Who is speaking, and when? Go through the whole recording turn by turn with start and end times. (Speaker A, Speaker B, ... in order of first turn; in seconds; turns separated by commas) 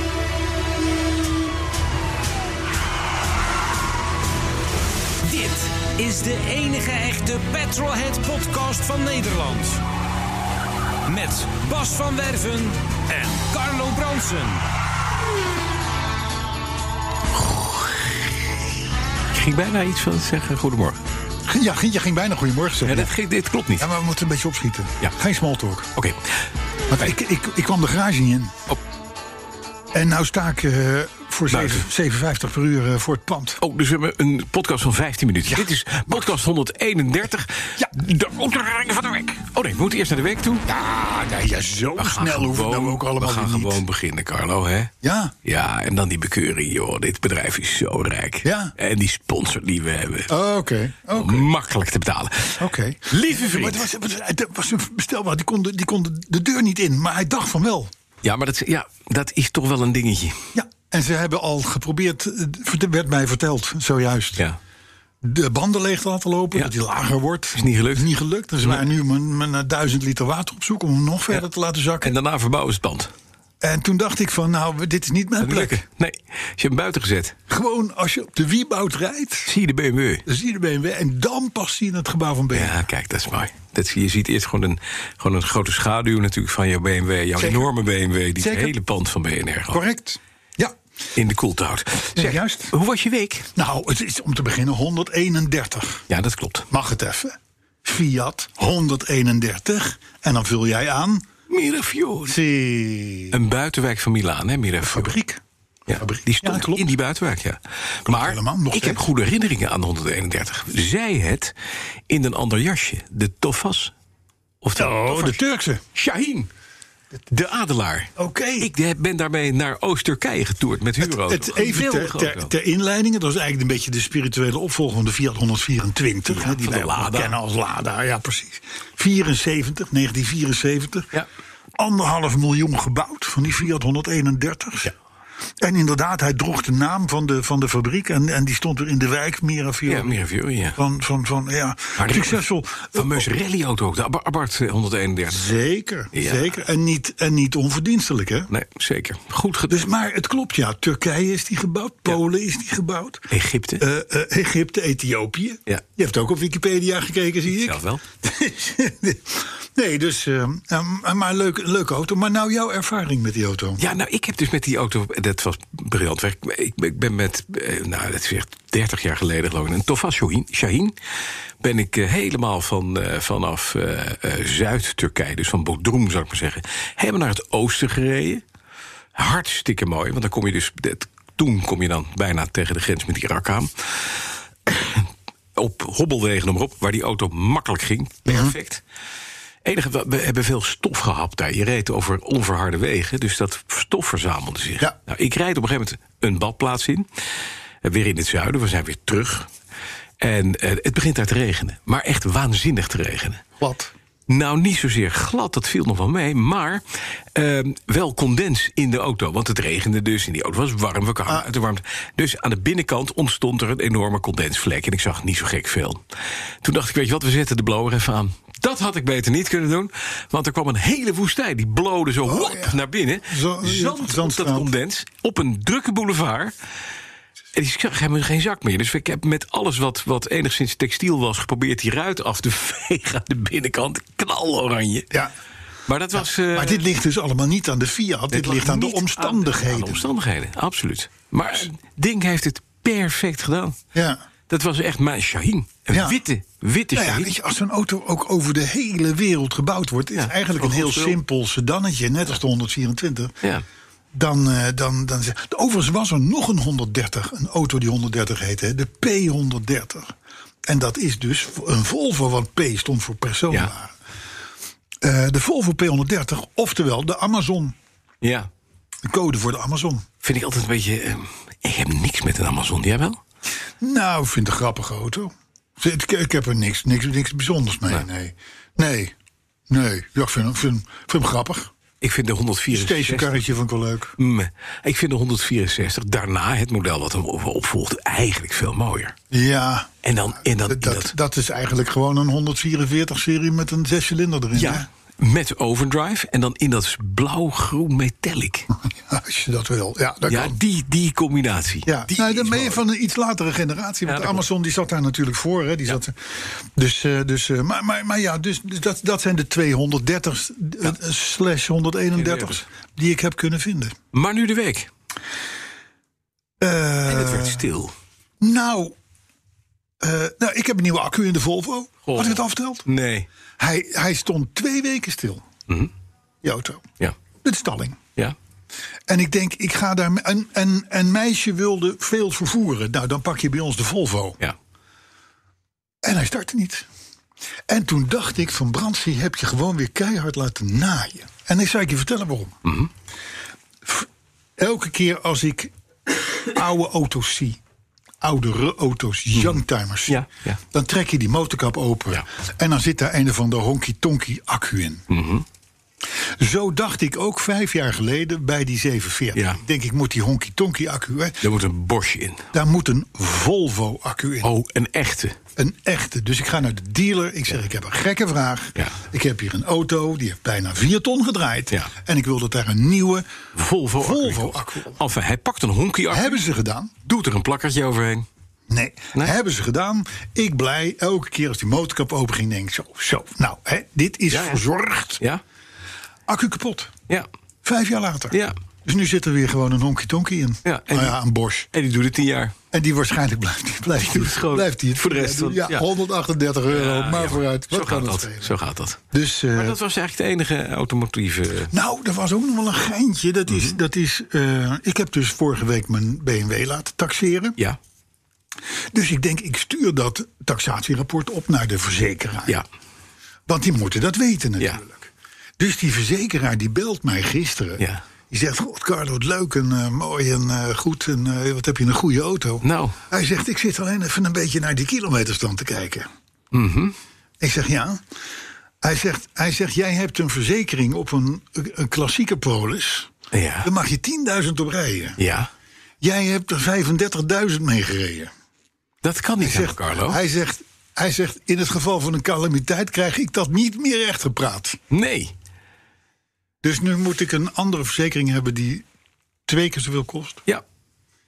Speaker A: 5.2-9.8, Speaker A: 11.1-14.6, Speaker B: 17.3-18.0, Speaker B: 19.3-21.0, Speaker C: 21.5-23.1, Speaker B: 22.8-23.9, Speaker C: 23.8-25.9, Speaker C: 26.9-28.6, Speaker C: 29.9-33.6, Speaker B: 31.5-31.9, Speaker B: 33.6-40.6, Speaker C: 35.5-36.3, Speaker C: 40.6-43.8, Speaker B: 42.0-44.9, Speaker C: 45.0-45.3, Speaker B: 45.4-50.3, Speaker C: 48.4-48.7, Speaker C: 50.3-51.5, Speaker B: 51.1-53.9, Speaker C: 52.6-57.9, Speaker B: 58.2-60.5, Speaker C: 60.5-64.4, Speaker C: 65.2-72.1, Speaker B: 67.5-68.1, Speaker B: 72.0-73.1, Speaker C: 73.6-75.8, Speaker B: 75.4-77.4, Speaker C: 77.5-79.5, Speaker B: 79.5-80.2, Speaker C: 80.2-82.8, Speaker B: 82.5-89.8, Speaker C: 87.4-87.7, Speaker C: 88.4-88.7, Speaker C: 89.7-90.7, Speaker B: 91.1-93.5, Speaker C: 92.2-92.7, Speaker C: 93.5-96.0, Speaker B: 96.1-96.7, Speaker C: 96.7-101.2, Speaker B: 101.5-102.3, Speaker C: 102.2-103.4, Speaker B: 103.3-105.1, Speaker C: 104.8-105.4, Speaker B: 105.9-111.5, Speaker C: 105.9-106.9, Speaker C: 108.0-109.0, Speaker B: 112.1-113.9, Speaker B: 114.6-115.4, Speaker C: 114.8-115.8, Speaker B: 115.9-116.5, Speaker B: 117.3-122.5, Speaker C: 118.2-118.7, Speaker C: 121.0-131.1, Speaker B: 126.3-127.3, Speaker C: 131.8-134.9, Speaker C: 135.6-140.2, Speaker B: 139.8-140.8, Speaker C: 140.8-143.3, Speaker B: 142.0-142.4, Speaker B: 142.9-145.5, Speaker C: 145.3-148.5, Speaker B: 146.1-146.5, Speaker B: 148.5-149.9, Speaker C: 149.7-153.2, Speaker B: 153.3-153.8, Speaker C: 153.8-163.8, Speaker B: 157.5-158.0, Speaker B: 163.8-170.9, Speaker B: 171.6-178.4, Speaker B: 179.1-184.1, Speaker B: 184.7-188.8, Speaker C: 188.3-188.5, Speaker B: 189.6-197.1, Speaker B: 197.8-199.5, Speaker B: 200.2-203.4, Speaker C: 203.6-203.9, Speaker B: 204.3-206.8, Speaker B: 207.3-216.0, Speaker B: 216.6-226.5, Speaker C: 222.2-224.7, Speaker B: 227.5-235.1, Speaker B: 235.9-236.8, Speaker C: 236.2-240.1, Speaker B: 238.3-243.8, Speaker C: 243.9-244.2, Speaker B: 244.5-247.3, Speaker C: 245.9-246.2, Speaker C: 246.9-253.3, Speaker B: 250.1-251.2, Speaker C: 254.1-260.1, Speaker C: 260.6-263.9, Speaker C: 265.0-267.8, Speaker B: 268.2-268.5, Speaker C: 269.0-270.1, Speaker B: 270.2-273.2, Speaker C: 273.8-279.1, Speaker C: 279.7-281.7, Speaker B: 282.0-283.4, Speaker C: 282.7-284.1, Speaker B: 284.2-289.1, Speaker C: 289.3-289.9, Speaker B: 290.0-291.1, Speaker C: 290.6-294.9, Speaker B: 294.5-298.7, Speaker C: 298.8-300.6, Speaker B: 300.3-302.8, Speaker C: 301.9-313.9, Speaker B: 304.0-304.4, Speaker B: 312.1-312.6, Speaker B: 314.1-314.9, Speaker C: 316.6-317.6, Speaker B: 317.1-317.9, Speaker C: 318.4-318.9, Speaker C: 320.0-322.9, Speaker B: 322.0-323.3, Speaker C: 323.6-325.4, Speaker C: 326.4-326.9, Speaker C: 327.4-328.0, Speaker C: 329.1-334.4, Speaker C: 336.0-336.9, Speaker C: 337.7-342.6, Speaker C: 343.8-347.6, Speaker C: 348.2-350.2, Speaker B: 350.1-350.6, Speaker C: 350.7-355.0, Speaker B: 355.1-355.4, Speaker C: 356.2-361.4, Speaker B: 359.3-359.6, Speaker B: 361.4-362.5, Speaker C: 362.5-364.5, Speaker B: 364.4-365.4, Speaker C: 365.6-373.3, Speaker B: 373.5-376.4, Speaker C: 374.0-375.0, Speaker C: 376.1-376.9, Speaker B: 377.0-378.2, Speaker C: 378.7-385.2, Speaker B: 384.3-384.6, Speaker C: 386.3-386.9, Speaker C: 387.6-391.7, Speaker B: 390.6-391.2, Speaker B: 391.7-392.5, Speaker C: 392.7-398.5, Speaker B: 394.0-395.9, Speaker B: 396.7-399.0, Speaker C: 399.1-399.8, Speaker B: 399.5-401.7, Speaker C: 401.7-407.6, Speaker B: 403.5-403.8, Speaker C: 408.9-412.6, Speaker C: 413.5-426.1, Speaker B: 422.6-423.0, Speaker B: 426.5-426.9, Speaker C: 427.4-428.0, Speaker C: 428.8-433.1, Speaker B: 433.3-433.7, Speaker C: 433.6-435.2, Speaker B: 435.2-435.5, Speaker C: 436.0-438.3, Speaker B: 439.0-440.2, Speaker C: 439.4-444.8, Speaker B: 444.9-445.3, Speaker C: 446.6-448.8, Speaker C: 449.4-450.4